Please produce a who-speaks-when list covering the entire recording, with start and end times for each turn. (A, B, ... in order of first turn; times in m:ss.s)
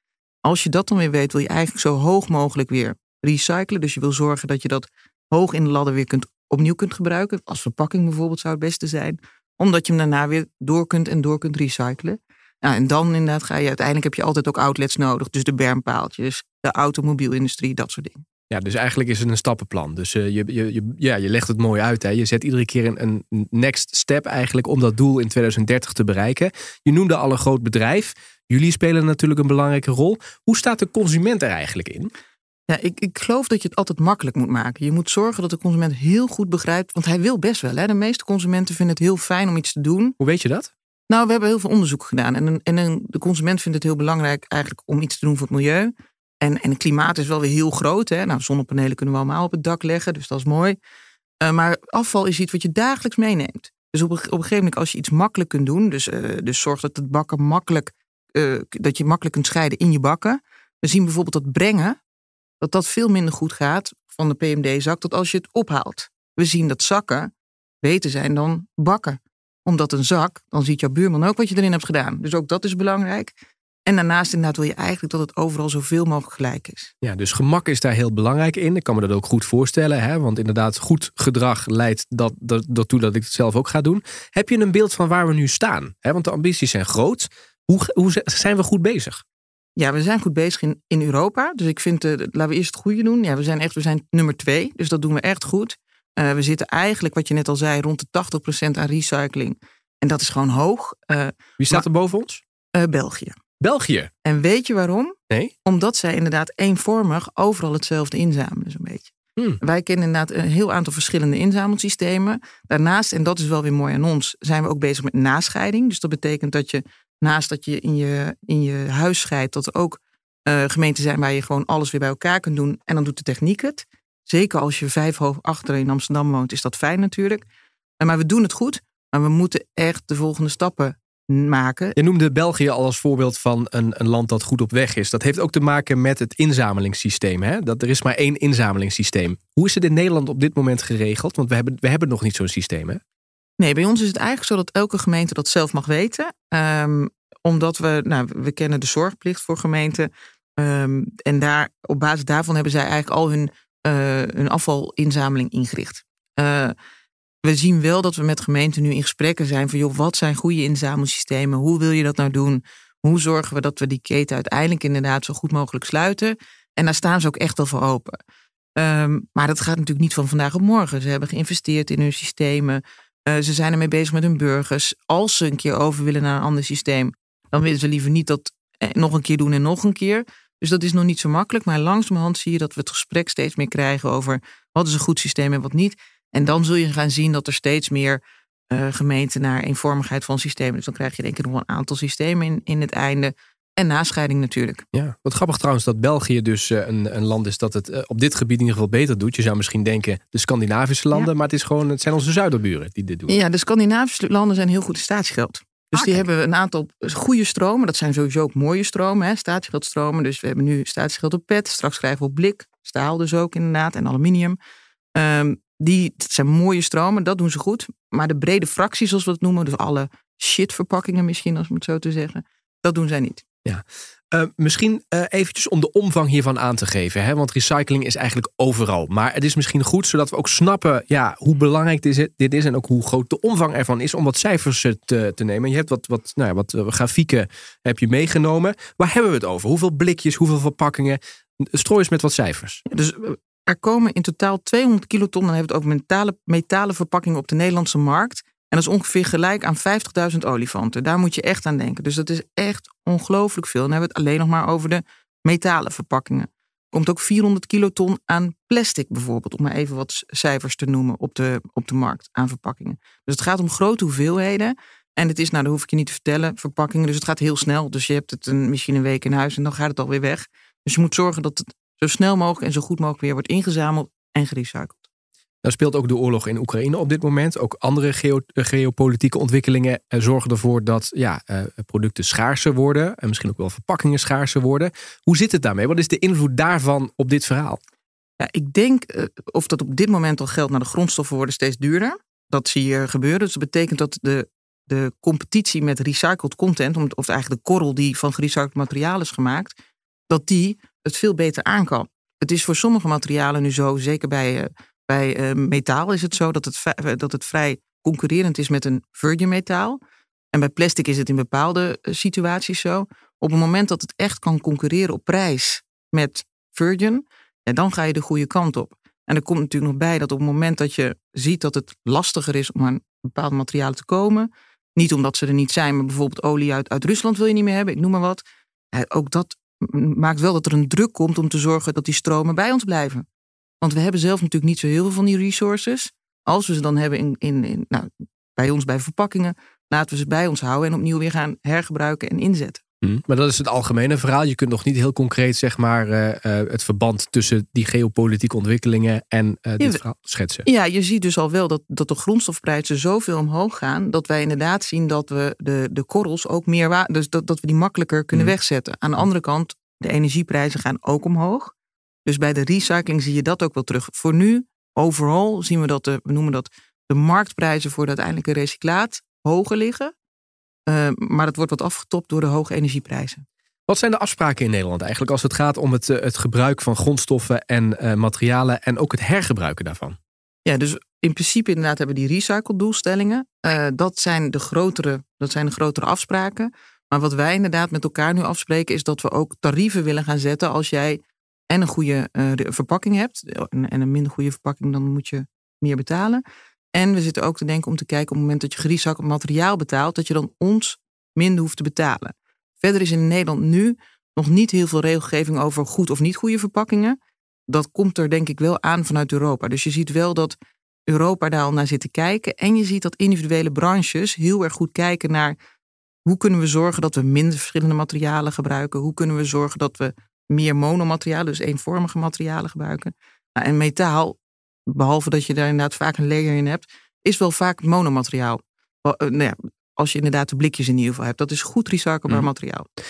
0:00.4-0:18.2 A
0:18.5-0:32.1 B
0:32.7-0:40.2 A
0:40.2-0:40.7 B
0:41.1-0:50.8 A
0:51.4-1:02.0 A
1:02.6-1:13.3 A
1:13.8-1:16.9 A
1:17.0-1:29.2 B
1:29.8-1:41.8 A
1:41.6-1:42.4 B
1:42.7-1:43.4 A
1:43.6-1:44.1 B
1:44.2-2:07.4 A
2:08.0-2:12.0 A
2:12.0-2:23.0 B
2:23.6-2:36.8 A
2:37.4-2:48.2 A
2:48.8-3:14.8 A
3:14.9-3:23.4 B
3:23.3-3:34.6 A
3:25.9-3:26.2 B
3:35.1-3:43.4 A
3:43.6-4:02.8 B
4:02.9-4:35.0 A
4:35.6-4:47.8 B
4:48.4-4:59.7 A
5:00.3-5:10.0 A
5:10.5-5:33.2 A
5:33.8-5:42.8 A
5:43.0-5:50.7 B
5:50.6-6:01.7 A
6:02.2-6:10.1 A
6:10.8-6:13.4 A
6:13.9-6:20.2 B
6:20.6-6:36.4 A
6:36.9-6:50.6 A
6:51.1-6:55.6 A
6:56.2-7:12.8 A